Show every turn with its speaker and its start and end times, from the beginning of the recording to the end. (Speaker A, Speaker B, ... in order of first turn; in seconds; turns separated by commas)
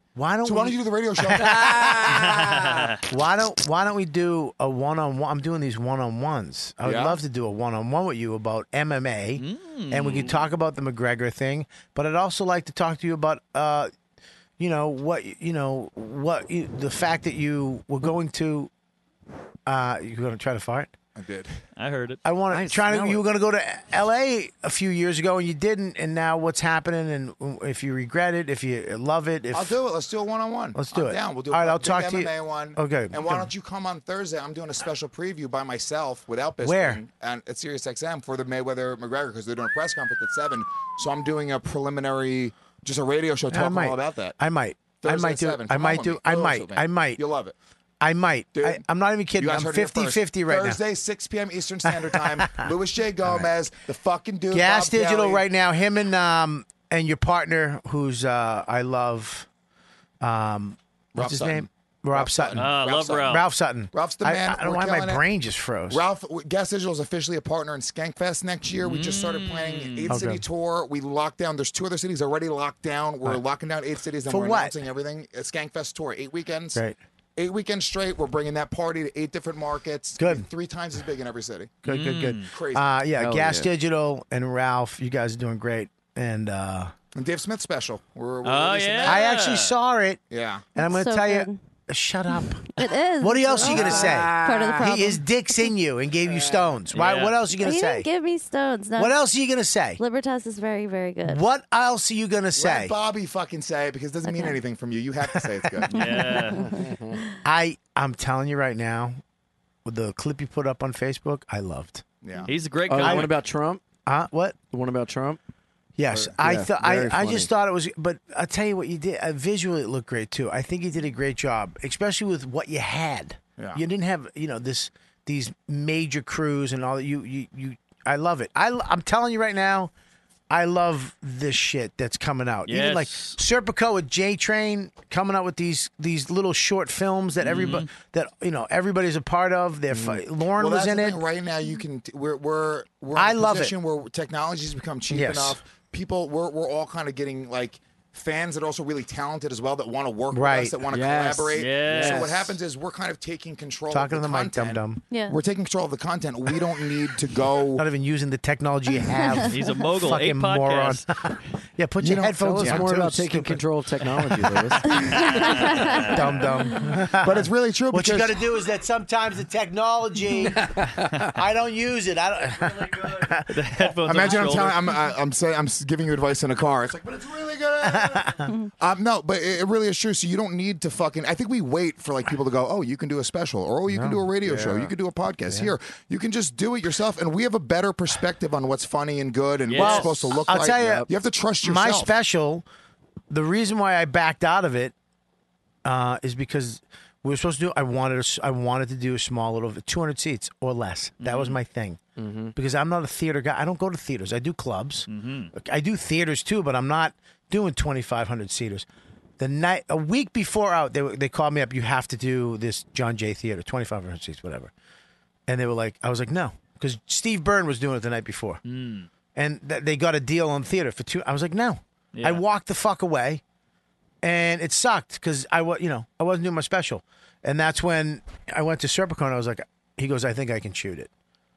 Speaker A: 0.1-2.4, Speaker B: 0.4-1.8, Speaker C: 1.4-2.8, Speaker D: 2.0-3.0, Speaker A: 3.1-13.9, Speaker B: 6.8-7.2, Speaker D: 9.4-10.4, Speaker A: 14.6-18.7, Speaker A: 19.6-20.9, Speaker B: 21.1-21.6, Speaker D: 21.8-22.2, Speaker A: 22.2-29.8, Speaker C: 22.5-23.2, Speaker B: 29.5-44.4, Speaker A: 30.7-33.5, Speaker A: 36.6-37.0, Speaker A: 43.5-47.2, Speaker B: 45.0-47.5, Speaker A: 48.0-50.8, Speaker B: 48.5-48.8, Speaker B: 49.4-55.5, Speaker A: 52.0-52.7, Speaker A: 53.2-53.5, Speaker A: 54.5-59.5, Speaker A: 60.2-66.0, Speaker B: 61.1-65.2, Speaker D: 62.5-63.5, Speaker B: 65.9-76.8, Speaker D: 68.8-70.2, Speaker A: 70.1-70.4, Speaker A: 74.3-74.7, Speaker B: 77.3-81.8, Speaker A: 80.2-80.5, Speaker A: 81.8-86.9, Speaker D: 81.8-82.5, Speaker B: 82.5-82.8, Speaker C: 83.2-83.7, Speaker B: 87.1-89.3, Speaker D: 88.4-89.7, Speaker A: 89.0-90.2, Speaker B: 90.3-90.7, Speaker A: 90.8-92.7, Speaker E: 90.8-91.6, Speaker E: 92.7-95.7, Speaker A: 93.2-98.1, Speaker C: 93.6-95.1, Speaker C: 96.2-96.7, Speaker D: 96.9-97.4, Speaker E: 97.6-99.2, Speaker A: 99.0-100.0, Speaker E: 100.0-101.4, Speaker A: 101.2-102.9, Speaker B: 102.5-106.2, Speaker E: 104.2-104.6, Speaker A: 105.3-105.9, Speaker D: 105.9-106.6, Speaker E: 106.1-107.3, Speaker C: 106.6-107.2, Speaker A: 107.4-109.2, Speaker A: 109.8-112.0, Speaker B: 112.2-112.5, Speaker D: 112.5-113.3, Speaker C: 112.9-113.8, Speaker A: 113.0-113.3, Speaker A: 114.1-114.5, Speaker C: 114.7-115.4, Speaker A: 116.0-129.9, Speaker C: 116.1-117.5, Speaker A: 130.5-141.2, Speaker D: 132.7-133.4, Speaker D: 137.4-137.9, Speaker C: 139.9-140.2, Speaker B: 140.6-157.8, Speaker A: 143.1-143.7, Speaker A: 145.1-145.6, Speaker A: 150.3-150.8, Speaker C: 150.9-152.5, Speaker D: 151.6-152.3, Speaker A: 153.9-155.0, Speaker E: 155.1-155.4, Speaker A: 157.8-165.4, Speaker E: 159.1-159.5, Speaker D: 159.5-161.1, Speaker B: 162.0-162.9, Speaker C: 162.4-165.0, Speaker E: 165.0-166.2, Speaker D: 165.1-166.3, Speaker A: 166.1-174.4, Speaker B: 167.2-168.4, Speaker C: 170.5-171.3, Speaker D: 173.5-174.8, Speaker B: 174.1-192.1, Speaker A: 177.8-178.4, Speaker A: 183.9-184.2, Speaker C: 184.4-184.9, Speaker D: 189.7-190.4, Speaker A: 189.8-191.1, Speaker C: 190.5-191.1, Speaker A: 191.6-192.6, Speaker A: 193.3-194.9, Speaker A: 195.8-202.0, Speaker D: 201.2-201.6, Speaker C: 202.2-202.5, Speaker A: 202.5-208.8, Speaker D: 205.1-205.5, Speaker A: 209.4-214.7, Speaker A: 215.5-218.6, Speaker D: 218.6-219.1, Speaker A: 219.3-223.4, Speaker D: 222.1-222.4, Speaker A: 224.2-231.1